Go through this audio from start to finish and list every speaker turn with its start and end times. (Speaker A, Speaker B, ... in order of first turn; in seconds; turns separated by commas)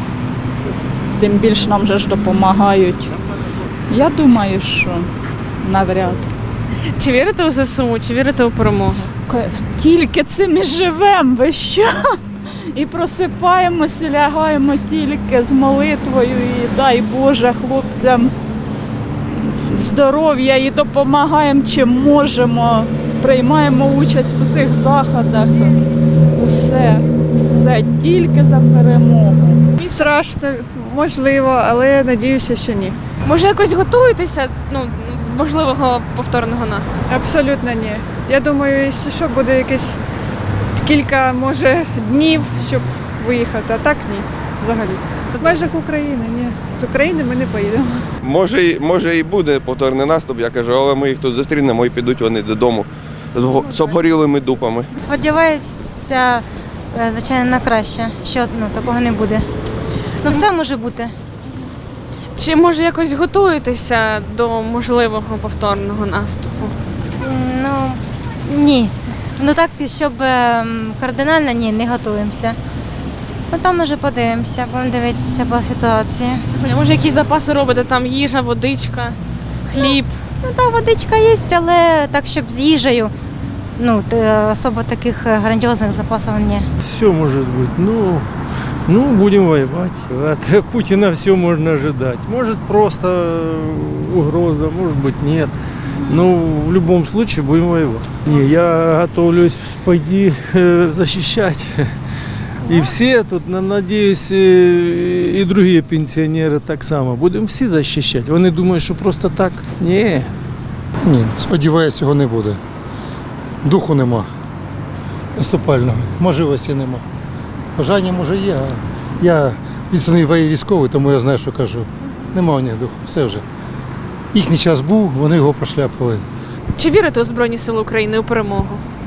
Speaker A: 1.1-3.1, Speaker A: 3.9-5.1, Speaker A: 5.6-6.3, Speaker B: 7.0-9.1, Speaker A: 9.3-12.2, Speaker A: 12.7-18.3, Speaker A: 19.7-25.7, Speaker A: 26.3-29.7, Speaker C: 29.8-33.0, Speaker B: 29.8-30.1, Speaker B: 33.2-37.0, Speaker C: 37.1-40.0, Speaker C: 40.7-48.0, Speaker B: 45.4-45.7, Speaker D: 48.2-54.9, Speaker C: 53.6-53.9, Speaker E: 55.0-59.5, Speaker E: 60.2-61.1, Speaker B: 62.4-66.7, Speaker E: 67.2-72.6, Speaker E: 73.5-76.4, Speaker B: 76.5-79.2, Speaker E: 79.7-83.1, Speaker B: 79.7-80.1, Speaker E: 83.8-86.7, Speaker F: 86.8-88.3, Speaker F: 88.9-101.9, Speaker C: 102.7-102.9, Speaker F: 102.7-110.3, Speaker G: 111.0-112.6, Speaker G: 113.6-114.3, Speaker G: 115.3-117.0, Speaker G: 117.8-123.4, Speaker G: 124.3-126.2, Speaker B: 126.8-128.8